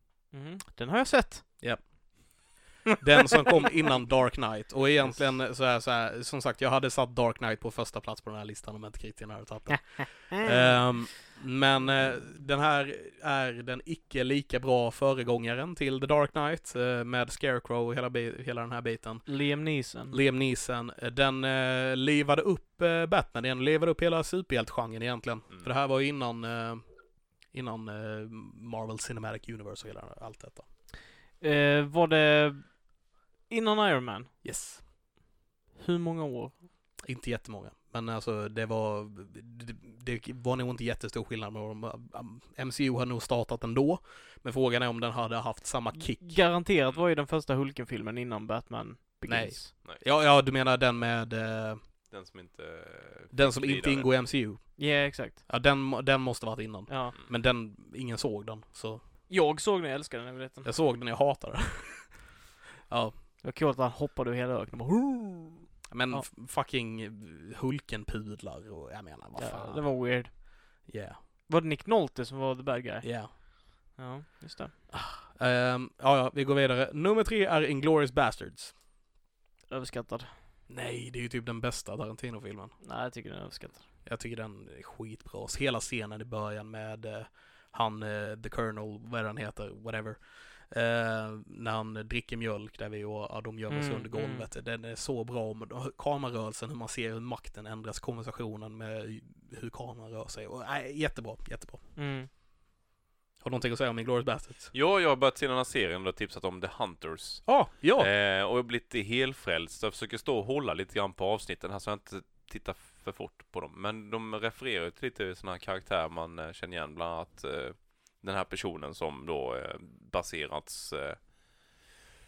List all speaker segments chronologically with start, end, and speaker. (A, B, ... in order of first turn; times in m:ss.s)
0:00.3-0:01.4 A
0:01.6-0:19.3 B
0:09.7-0:10.5 A
0:19.3-0:20.2 A
0:20.1-0:26.8 B
0:27.5-0:30.6 B
0:31.4-0:32.9 A
0:33.5-0:34.3 A
0:34.4-0:34.8 B
0:35.8-0:36.6 A
0:37.0-0:46.3 B
0:45.9-0:49.7 A
0:49.2-0:51.8 B
0:52.1-0:54.1 C
0:53.3-0:59.0 B
0:54.8-0:55.4 A
0:56.9-0:57.1 A
0:59.3-1:00.7 A
1:00.6-1:02.2 B
1:02.9-1:03.1 B
1:03.4-1:06.2 A
1:05.9-1:10.1 B
1:09.4-1:10.3 A
1:10.8-1:11.2 B
1:11.5-1:14.7 A
1:13.0-1:13.3 B
1:14.9-1:18.7 B
1:19.7-1:20.3 A
1:20.7-1:22.8 B
1:22.8-1:23.9 A
1:24.0-1:41.8 B
1:33.7-1:34.5 A
1:42.0-1:42.3 A
1:43.4-1:44.7 B
1:44.7-2:01.7 C
1:47.4-1:48.1 B